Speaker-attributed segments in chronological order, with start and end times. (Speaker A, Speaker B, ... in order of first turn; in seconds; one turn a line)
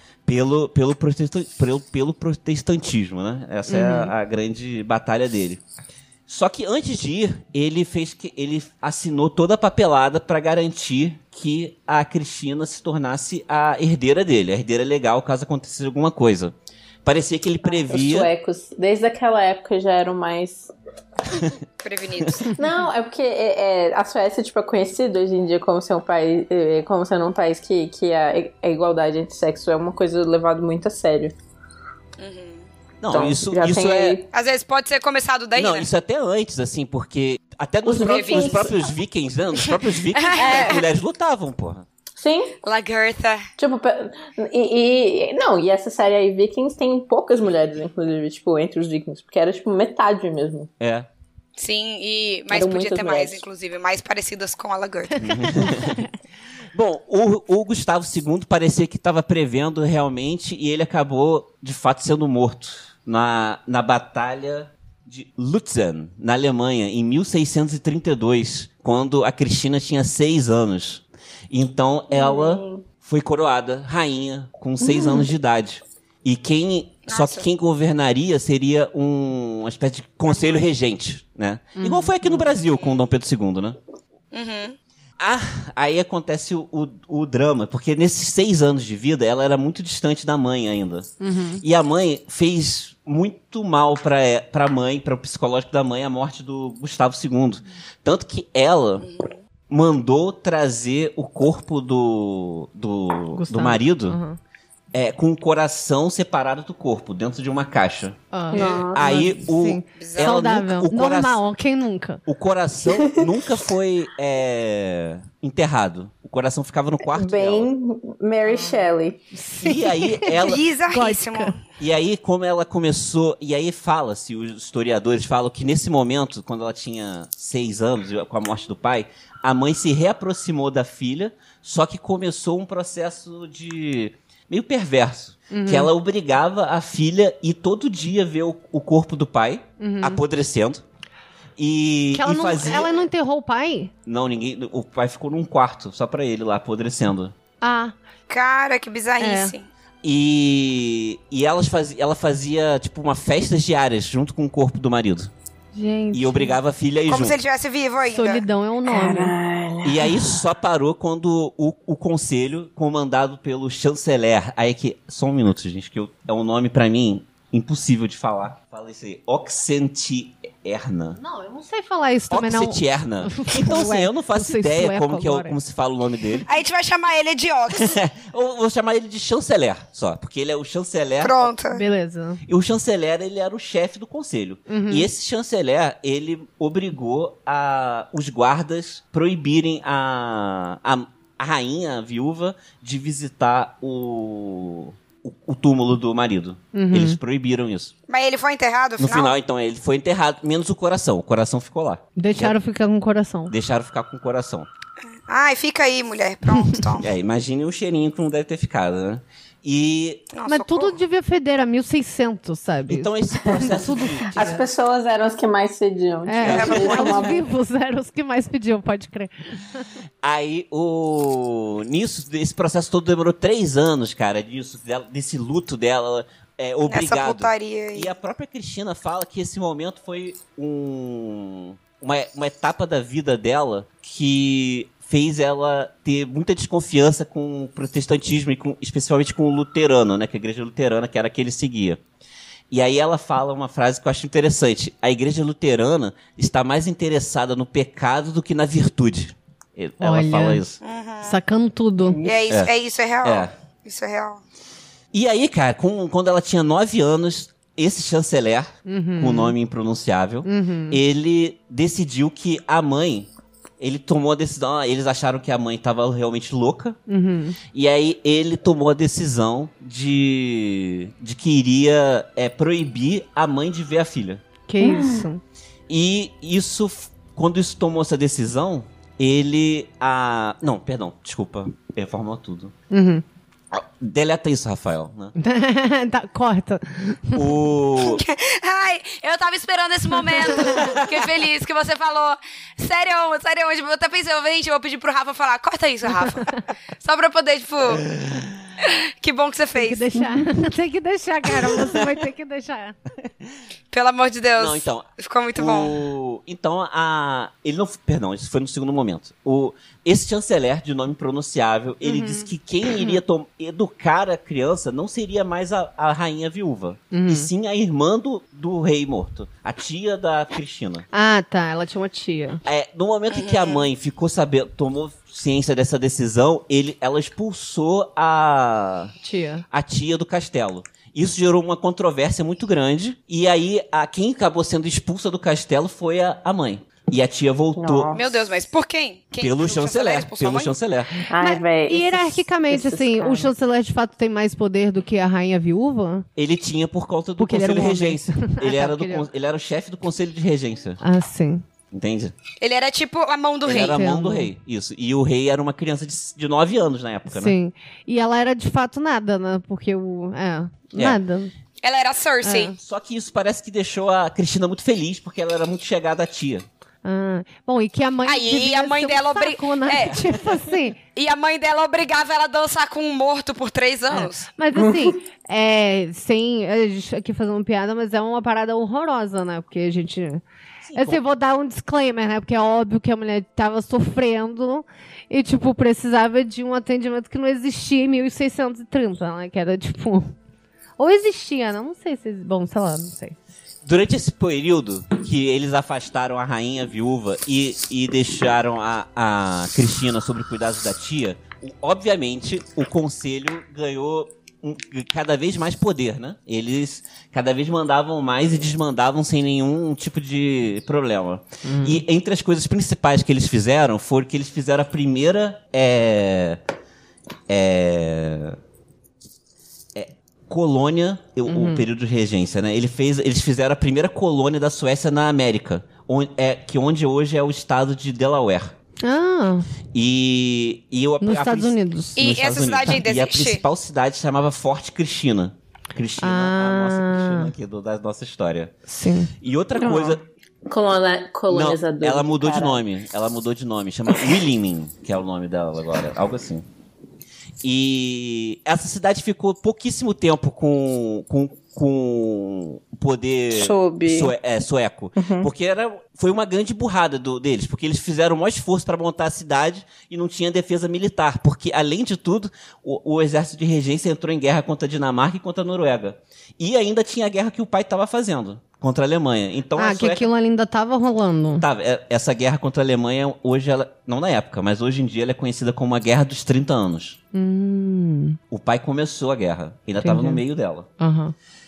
Speaker A: 0.2-5.6
Speaker B: 3.7-4.1
Speaker A: 6.3-18.3
Speaker C: 17.6-20.7
Speaker D: 21.8-22.5
Speaker C: 22.5-31.3
Speaker D: 32.2-32.7
Speaker A: 33.0-34.2
Speaker C: 33.1-34.3
Speaker D: 34.3-35.9
Speaker A: 35.5-41.9
Speaker C: 37.8-38.8
Speaker D: 38.0-38.7
Speaker D: 40.1-40.8
Speaker C: 40.3-40.8
Speaker C: 42.2-42.5
Speaker D: 42.6-43.5
Speaker C: 43.6-50.7
Speaker A: 50.8-51.1
Speaker D: 51.6-55.2
Speaker C: 52.5-53.4
Speaker A: 55.2-56.0
Speaker B: 55.4-56.0
Speaker A: 56.7-83.8
Speaker C: 72.1-72.8
Speaker C: 74.8-75.2
Speaker D: 77.1-77.4
Speaker B: 81.8-82.5
Speaker D: 82.8-83.0
Speaker D: 84.3-84.8
Speaker A: 85.2-91.1
Speaker B: 91.2-91.6
Speaker A: 91.6-99.1
Speaker D: 99.0-99.4
Speaker A: 99.7-104.2
Speaker B: 103.3-104.4
Speaker A: 104.9-111.4
Speaker B: 108.3-112.2
Speaker C: 108.5-109.1
Speaker D: 110.0-110.4
Speaker A: 112.3-117.7
Speaker C: 117.1-119.2
Speaker B: 118.4-118.8
Speaker B: 119.3-121.5
Speaker A: 119.6-120.6
Speaker D: 120.4-121.6
Speaker A: 121.8-140.8
Speaker B: 135.5-135.9
Speaker B: 139.8-140.2
Speaker A: 141.6-143.0
Speaker B: 142.1-143.9
Speaker A: 144.1-147.3
Speaker B: 147.6-147.9
Speaker D: 148.3-149.7
Speaker B: 149.2-149.5
Speaker A: 150.0-155.3
Speaker B: 155.7-156.6
Speaker A: 156.1-157.4
Speaker D: 157.1-158.4
Speaker B: 158.1-159.3
Speaker C: 158.8-160.4
Speaker A: 159.8-171.2
Speaker B: 171.2-175.6
Speaker A: 172.3-176.4
Speaker D: 176.5-177.9
Speaker A: 177.7-181.5
Speaker D: 181.2-181.8
Speaker B: 181.7-182.4
Speaker A: 182.5-197.9
Speaker B: 184.7-185.1
Speaker B: 196.7-197.2
Speaker D: 198.1-199.3
Speaker A: 199.0-202.5
Speaker B: 202.2-203.5
Speaker A: 203.5-204.7
Speaker D: 205.3-207.1
Speaker A: 207.0-210.3
Speaker D: 210.3-211.0
Speaker B: 210.4-214.6
Speaker A: 212.9-214.6
Speaker C: 213.4-213.8
Speaker C: 214.3-217.4
Speaker B: 216.2-219.6
Speaker A: 216.4-217.2
Speaker D: 216.5-217.2
Speaker A: 220.2-242.0
Speaker D: 226.9-228.1
Speaker A: 242.7-250.8
Speaker B: 250.0-250.6
Speaker D: 250.8-251.4
Speaker B: 251.2-252.2
Speaker C: 252.1-252.4
Speaker D: 252.2-254.4
Speaker A: 253.2-253.5
Speaker A: 255.1-267.0
Speaker B: 258.9-259.6
Speaker B: 260.4-261.0
Speaker B: 267.1-267.6
Speaker A: 267.7-274.4
Speaker B: 274.7-275.4
Speaker C: 274.8-275.2
Speaker A: 275.9-282.7
Speaker B: 282.9-283.2
Speaker A: 283.7-285.3
Speaker B: 285.4-287.4
Speaker A: 287.3-288.2
Speaker D: 288.0-298.0
Speaker B: 290.2-290.9
Speaker A: 290.6-291.1
Speaker A: 297.9-298.6
Speaker D: 298.8-300.1
Speaker B: 299.7-302.9
Speaker D: 303.9-306.0
Speaker A: 304.6-321.1
Speaker B: 312.0-313.2
Speaker B: 317.1-317.5
Speaker B: 321.1-322.6
Speaker A: 322.6-329.1
Speaker D: 323.3-323.9
Speaker B: 329.2-329.6
Speaker A: 329.7-338.2
Speaker C: 337.8-338.2
Speaker D: 338.1-340.8
Speaker A: 339.4-341.1
Speaker C: 341.3-343.5
Speaker B: 341.4-346.2
Speaker A: 346.4-351.0
Speaker B: 347.4-349.3
Speaker B: 351.0-351.6
Speaker A: 351.9-352.3
Speaker D: 352.6-354.0
Speaker A: 353.6-357.6
Speaker B: 353.7-354.5
Speaker B: 357.3-361.5
Speaker D: 361.8-362.7
Speaker B: 362.4-362.8
Speaker A: 362.8-366.6
Speaker B: 367.0-371.0
Speaker D: 368.2-370.2
Speaker A: 370.0-370.6
Speaker D: 371.1-374.5
Speaker B: 374.1-380.4
Speaker C: 374.7-375.1
Speaker A: 380.8-381.2
Speaker B: 380.9-390.3
Speaker B: 391.0-393.4
Speaker A: 393.8-416.6
Speaker B: 411.6-412.0
Speaker A: 417.5-418.6
Speaker A: 419.9-428.7
Speaker B: 421.5-421.9
Speaker B: 429.0-429.7
Speaker A: 429.9-438.7
Speaker B: 431.2-432.2
Speaker D: 432.2-433.6
Speaker B: 436.2-437.5
Speaker B: 438.9-439.3
Speaker A: 439.4-440.2
Speaker C: 439.8-442.8
Speaker A: 441.5-446.6
Speaker A: 447.6-470.3
Speaker C: 453.5-454.3
Speaker C: 455.2-455.5
Speaker B: 469.8-471.6
Speaker A: 471.6-477.2
Speaker B: 477.3-478.4
Speaker A: 478.5-480.9
Speaker B: 480.0-480.4
Speaker B: 481.0-481.3